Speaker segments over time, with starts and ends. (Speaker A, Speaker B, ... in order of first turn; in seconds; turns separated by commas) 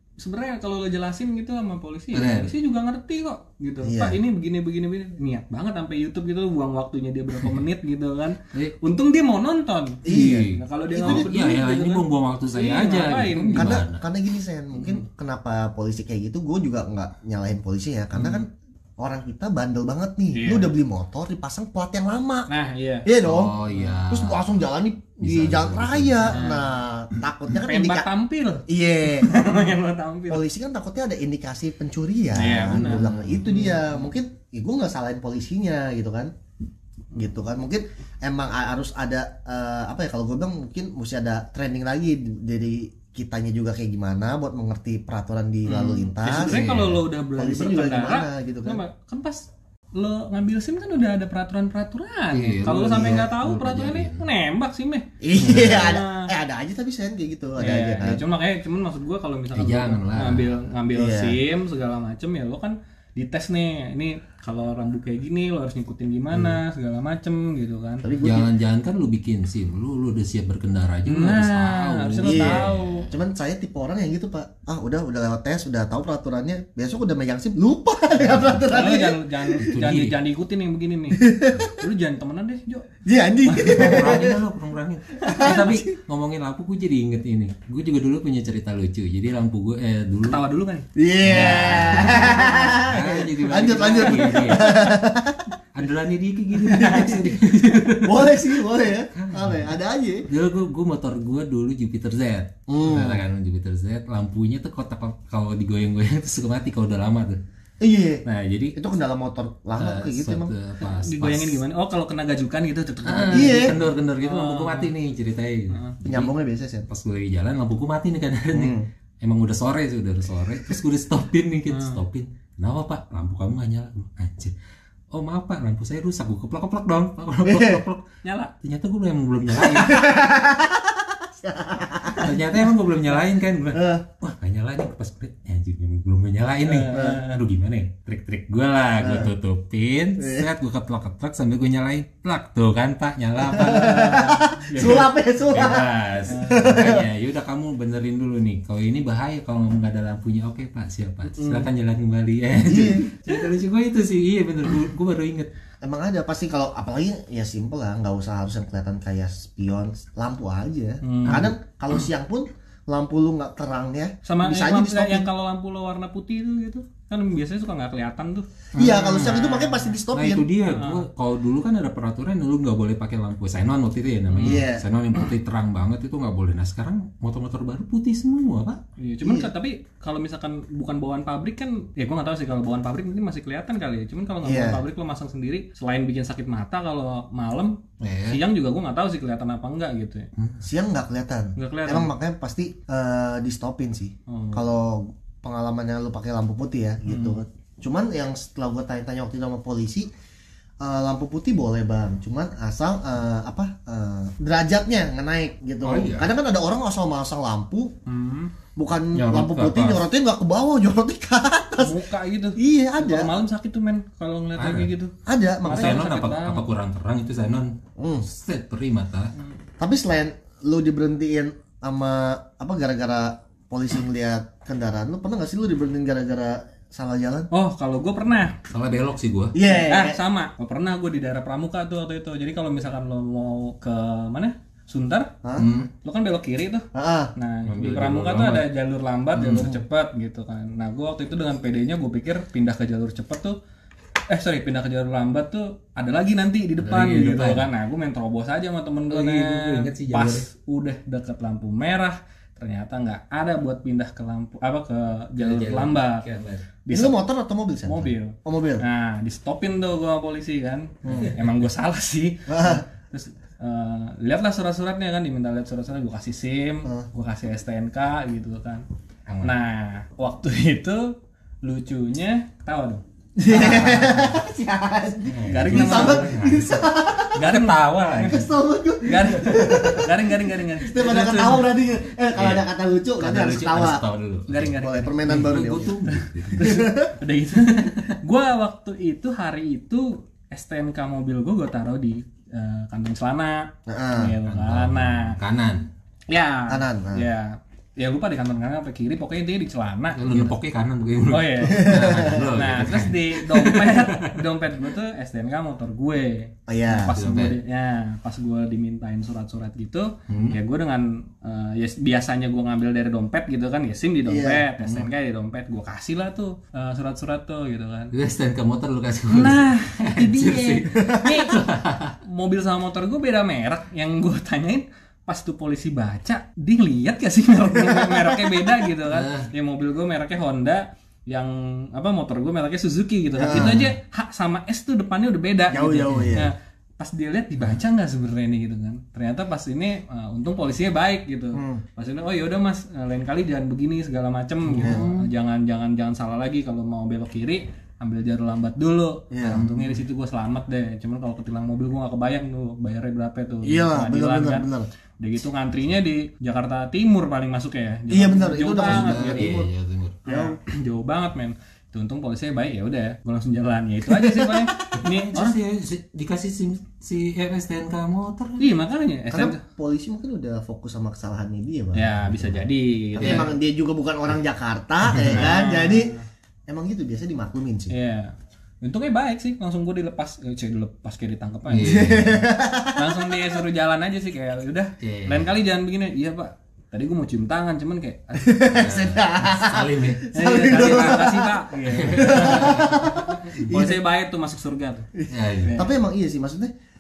Speaker A: 0.2-13.8, Speaker B: 2.1-2.5, Speaker C: 3.8-4.2, Speaker C: 10.0-11.3, Speaker B: 10.1-14.0, Speaker C: 13.6-18.5, Speaker A: 14.8-15.0, Speaker C: 19.0-22.5, Speaker A: 20.3-20.7, Speaker A: 22.5-23.1, Speaker C: 23.1-23.6, Speaker B: 23.2-24.6, Speaker C: 24.1-28.1, Speaker B: 25.2-26.5, Speaker A: 26.3-26.8, Speaker A: 27.6-28.6, Speaker C: 28.7-29.7, Speaker A: 29.2-30.4, Speaker C: 30.3-36.3, Speaker A: 32.3-34.0, Speaker B: 32.8-33.4, Speaker C: 37.1-46.6, Speaker A: 45.7-56.3, Speaker B: 45.7-47.0, Speaker C: 47.4-48.8, Speaker B: 52.3-54.3, Speaker C: 52.9-53.3, Speaker C: 55.2-58.2, Speaker B: 55.5-55.9, Speaker A: 57.6-68.0, Speaker B: 59.5-60.5, Speaker C: 60.9-61.4, Speaker C: 68.0-68.5, Speaker B: 68.2-73.1, Speaker A: 71.1-73.1, Speaker C: 72.2-79.6, Speaker A: 78.7-82.9, Speaker B: 79.6-80.2, Speaker C: 81.2-81.7, Speaker C: 83.0-84.4, Speaker A: 83.5-84.2, Speaker B: 83.7-90.4, Speaker A: 85.2-85.6, Speaker C: 85.3-85.8, Speaker A: 90.3-92.2, Speaker C: 91.0-95.5, Speaker B: 91.2-95.0, Speaker A: 93.8-94.4, Speaker B: 95.7-98.5, Speaker C: 96.6-97.4, Speaker A: 96.7-97.2, Speaker C: 98.0-100.3, Speaker B: 99.1-99.8, Speaker B: 100.3-107.4, Speaker C: 102.7-103.2, Speaker C: 107.8-108.2, Speaker B: 108.2-108.8, Speaker C: 108.8-110.5, Speaker B: 109.8-111.6, Speaker A: 110.8-114.9, Speaker B: 113.1-116.3, Speaker C: 113.3-113.8, Speaker A: 115.7-116.0, Speaker C: 116.1-116.9, Speaker B: 116.9-124.5, Speaker C: 118.5-118.9, Speaker A: 121.7-122.0, Speaker B: 125.1-128.0, Speaker C: 127.5-127.8, Speaker A: 128.2-128.5, Speaker B: 128.6-130.1, Speaker C: 129.5-132.4, Speaker B: 132.2-144.2, Speaker C: 133.7-134.1, Speaker A: 136.7-137.4, Speaker C: 136.9-137.2, Speaker C: 139.0-139.3, Speaker C: 140.2-140.5, Speaker C: 143.5-147.1, Speaker A: 143.5-145.1, Speaker B: 144.8-155.5, Speaker A: 146.3-146.7, Speaker A: 151.3-151.7, Speaker C: 152.7-153.1, Speaker C: 155.8-165.3, Speaker A: 161.0-161.5, Speaker B: 161.3-161.5, Speaker A: 164.2-168.5, Speaker B: 168.8-169.4, Speaker C: 168.8-170.4, Speaker A: 169.1-169.9, Speaker B: 170.1-178.8, Speaker A: 170.7-171.0, Speaker A: 174.3-174.7, Speaker C: 174.4-174.9, Speaker A: 179.0-187.8, Speaker C: 179.2-179.5, Speaker C: 184.4-184.8, Speaker B: 188.0-188.4, Speaker A: 188.3-190.3, Speaker B: 190.4-190.6, Speaker C: 190.6-200.1, Speaker A: 191.6-192.1, Speaker A: 194.3-194.7, Speaker A: 197.1-197.4, Speaker C: 200.8-207.9, Speaker B: 205.8-206.3, Speaker A: 208.1-208.5, Speaker C: 208.8-212.0, Speaker B: 209.1-210.1, Speaker A: 211.8-215.1, Speaker C: 212.6-213.3, Speaker B: 214.6-214.9, Speaker C: 215.3-216.0, Speaker A: 215.6-216.6, Speaker B: 215.7-217.7, Speaker C: 218.0-218.3, Speaker B: 218.3-219.3, Speaker C: 219.8-227.5, Speaker A: 227.5-228.6, Speaker B: 228.7-229.6, Speaker C: 229.5-230.2, Speaker A: 229.7-235.3, Speaker C: 235.4-235.7, Speaker B: 235.6-235.9, Speaker A: 236.0-243.6, Speaker C: 236.9-237.3, Speaker B: 237.7-238.7, Speaker B: 239.3-239.8, Speaker A: 244.3-256.2, Speaker B: 246.8-247.7, Speaker B: 249.1-250.5, Speaker B: 255.4-256.7, Speaker A: 256.9-257.2, Speaker C: 256.9-258.8, Speaker A: 257.9-268.9, Speaker C: 261.0-261.3, Speaker B: 261.1-261.6, Speaker C: 262.5-262.9, Speaker B: 269.3-269.5, Speaker A: 269.4-274.2, Speaker C: 273.4-277.5, Speaker B: 275.3-278.5, Speaker A: 275.5-276.3, Speaker A: 277.3-278.4, Speaker C: 278.2-284.0, Speaker A: 279.1-281.7, Speaker B: 282.4-282.7, Speaker B: 283.2-286.8, Speaker A: 284.5-285.6, Speaker C: 284.7-285.9, Speaker A: 286.1-295.4, Speaker C: 286.6-287.1, Speaker C: 293.9-294.3, Speaker B: 294.4-295.9, Speaker A: 296.3-300.6, Speaker C: 296.7-297.3, Speaker B: 300.2-304.3, Speaker A: 301.3-318.1, Speaker C: 301.7-302.5, Speaker C: 306.7-307.2, Speaker B: 307.0-307.6, Speaker B: 310.3-310.6, Speaker C: 314.3-314.7, Speaker B: 314.8-315.1, Speaker B: 318.1-322.2, Speaker A: 319.3-321.6, Speaker C: 320.9-321.5, Speaker A: 322.2-354.7, Speaker C: 327.8-328.9, Speaker B: 329.1-329.5, Speaker C: 333.4-333.9, Speaker B: 333.5-333.8, Speaker C: 335.7-336.5, Speaker B: 336.1-336.4, Speaker C: 341.6-341.8, Speaker B: 344.7-345.3, Speaker C: 349.3-349.6, Speaker B: 349.5-350.0, Speaker C: 353.6-354.9, Speaker A: 355.2-359.5, Speaker C: 358.1-359.7, Speaker B: 358.8-360.2, Speaker C: 360.3-360.6, Speaker A: 360.3-365.6, Speaker C: 364.1-364.9, Speaker B: 364.9-368.6, Speaker A: 368.6-369.6, Speaker C: 369.3-372.6, Speaker A: 371.9-373.5, Speaker C: 373.2-376.1, Speaker B: 373.2-373.5, Speaker B: 375.1-375.5, Speaker A: 375.3-376.3, Speaker C: 376.7-377.9, Speaker A: 377.9-382.0, Speaker B: 381.7-382.5, Speaker C: 381.8-383.5, Speaker A: 382.9-388.6, Speaker B: 385.0-385.5, Speaker C: 388.4-394.0, Speaker B: 388.8-390.9, Speaker A: 390.3-395.9, Speaker B: 391.9-393.8, Speaker C: 395.2-396.7, Speaker B: 395.3-395.8